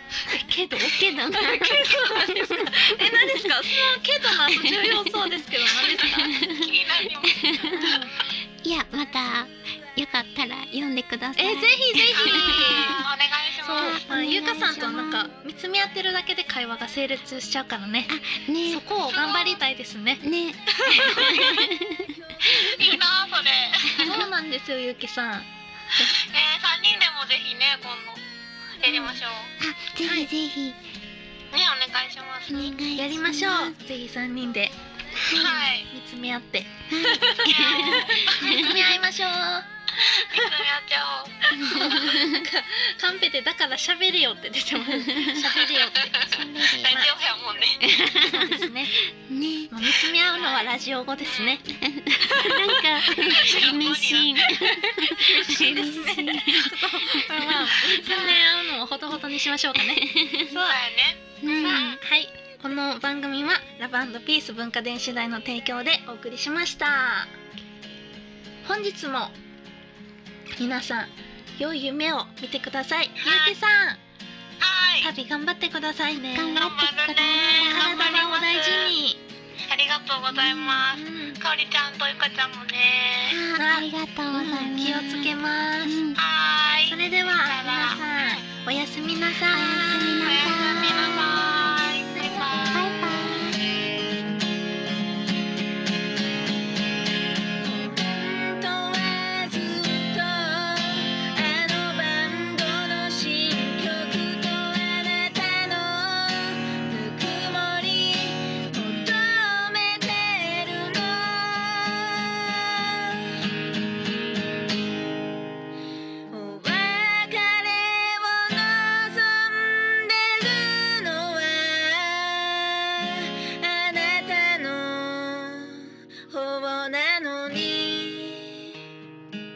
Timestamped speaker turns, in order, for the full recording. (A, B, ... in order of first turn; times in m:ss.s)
0:00.2-0:06.4 A
0:00.7-0:03.7 B
0:04.5-0:05.4 B
0:06.1-0:13.0 B
0:06.2-0:08.1 C
0:11.4-0:13.0 A
0:12.2-0:14.0 C
0:13.6-0:18.1 A
0:13.8-0:15.3 B
0:18.1-0:18.8 B
0:18.6-0:21.7 A
0:19.1-0:19.6 C
0:20.2-0:22.5 B
0:22.5-0:24.2 C
0:22.6-0:22.8 A
0:23.9-0:24.2 B
0:24.0-0:26.1 A
0:26.2-0:28.2 C
0:28.8-0:29.5 C
0:28.8-0:30.8 B
0:30.0-0:30.3 A
0:31.5-0:32.8 C
0:32.5-0:33.8 B
0:33.0-0:34.7 A
0:35.2-0:35.7 B
0:35.3-0:35.9 C
0:35.9-0:40.5 A
0:36.9-0:38.8 B
0:37.4-0:38.8 C
0:40.0-0:41.4 C
0:41.5-0:46.1 A
0:41.5-0:42.5 B
0:44.8-0:45.5 B
0:45.6-0:48.0 C
0:46.2-0:47.0 B
0:46.9-0:47.1 A
0:47.8-0:49.7 B
0:47.9-0:49.0 A
0:49.7-0:53.6 A
0:50.3-0:51.6 C
0:51.8-0:58.3 B
0:53.1-0:54.8 C
0:54.6-1:00.8 A
0:59.8-1:00.6 B
1:00.6-1:02.0 C
1:01.4-1:01.9 B
1:01.6-1:07.3 A
1:08.6-1:09.4 A
1:10.6-1:14.0 A
1:13.2-1:13.5 C
1:14.6-1:15.1 C
1:15.0-1:16.6 A
1:16.4-1:18.4 B
1:16.5-1:18.9 C
1:17.7-1:19.2 A
1:19.7-1:23.4 C
1:20.3-1:20.9 B
1:20.9-1:21.4 A
1:23.2-1:26.2 B
1:23.6-1:26.0 A
1:26.2-1:28.4 C
1:26.9-1:30.9 A
1:29.5-1:33.8 B
1:30.2-1:33.2 C
1:37.6-1:53.4 A
1:56.3-2:08.8 A